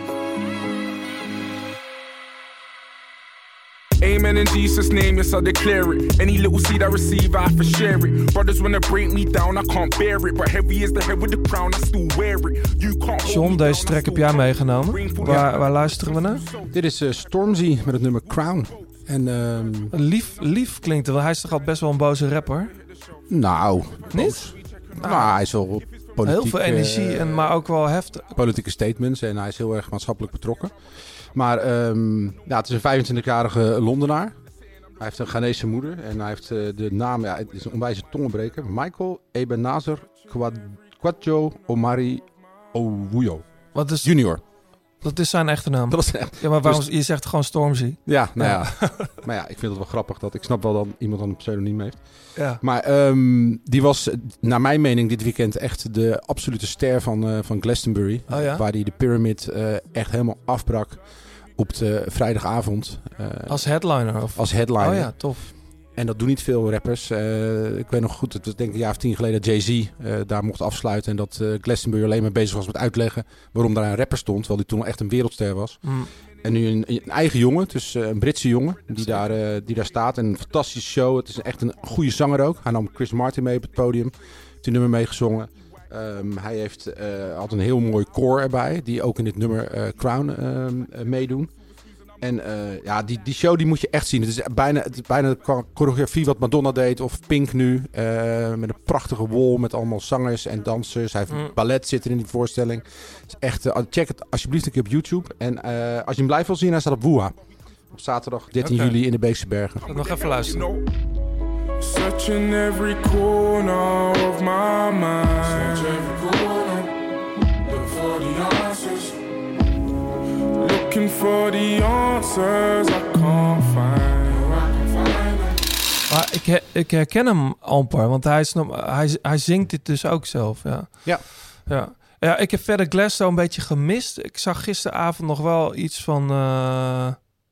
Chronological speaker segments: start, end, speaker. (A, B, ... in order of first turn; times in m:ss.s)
0:04.0-0:16.8 A
0:13.2-0:16.4 B
0:16.7-0:20.0 C
0:19.9-0:22.7 B
0:22.7-0:23.3 A
0:23.3-0:27.5 C
0:24.1-0:24.5 B
0:24.1-0:25.3 A
0:25.0-0:25.3 B
0:26.2-0:28.2 B
0:28.3-0:34.4 C
0:35.0-0:44.4 C
0:43.7-0:44.2 B
0:45.0-0:49.1 B
0:45.9-0:46.9 C
0:48.1-1:03.7 C
0:52.4-0:52.6 B
0:58.3-0:58.7 B
1:03.5-1:05.5 B
1:04.3-1:31.5 C
1:15.8-1:16.1 B
1:32.2-1:47.4 C
1:41.3-1:41.6 B
1:47.9-1:49.9 C
1:48.6-1:49.0 B
1:49.8-1:50.9 A
1:49.9-1:50.7 B
1:51.8-1:56.9 A
1:57.6-1:59.2 A
2:00.6-2:05.6 A
2:06.1-2:17.3 B